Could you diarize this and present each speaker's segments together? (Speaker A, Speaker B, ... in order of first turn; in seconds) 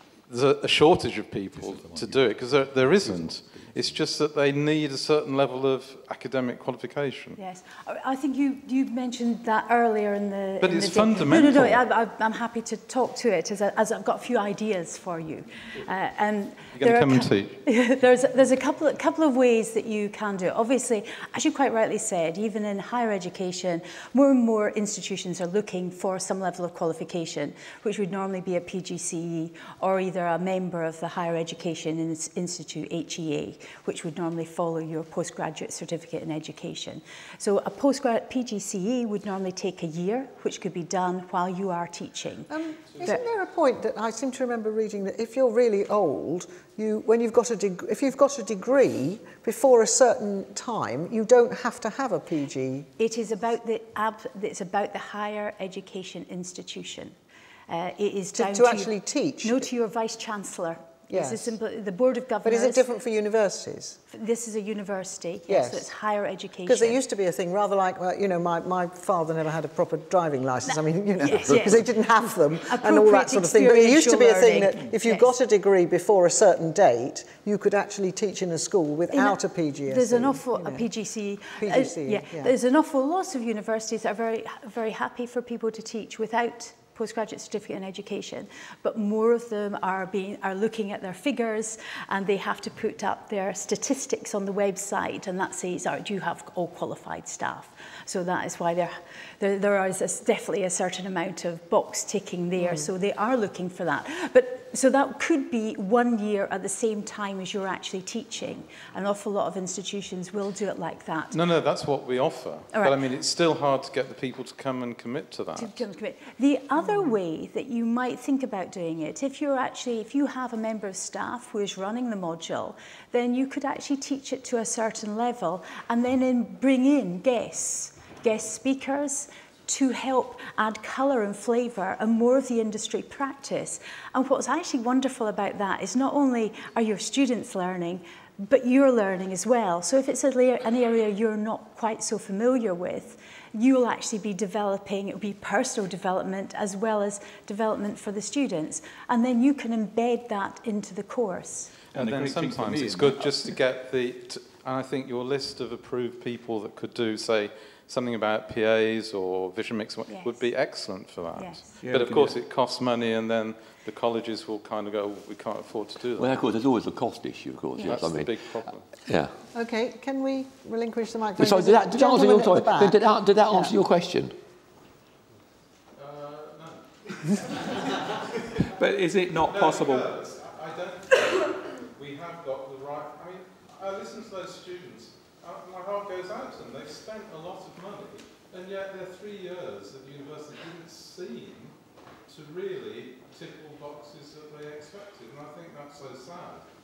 Speaker A: 0.3-7.4, 10.6-11.8, 16.7-17.6, 111.3-115.8, 151.9-166.4, 167.8-168.8, 175.9-178.0, 179.4-196.7
Speaker B: 1.6-3.2, 151.9-153.5, 161.8-162.4, 178.7-180.3
Speaker C: 7.4-43.2, 53.0-57.1, 57.7-58.9, 59.4-62.8, 64.1-67.0, 70.7-71.9, 72.6-75.3, 79.1-111.4, 112.7-113.0, 115.5-151.7, 160.1-160.5, 161.3-161.7
Speaker D: 42.5-52.9, 58.3-59.7, 61.1-61.6, 62.4-64.0, 65.5-65.9, 66.6-80.9, 81.5-82.5, 102.6-102.9, 169.5-173.7
Speaker E: 166.2-168.5, 169.0-169.3, 171.4-174.3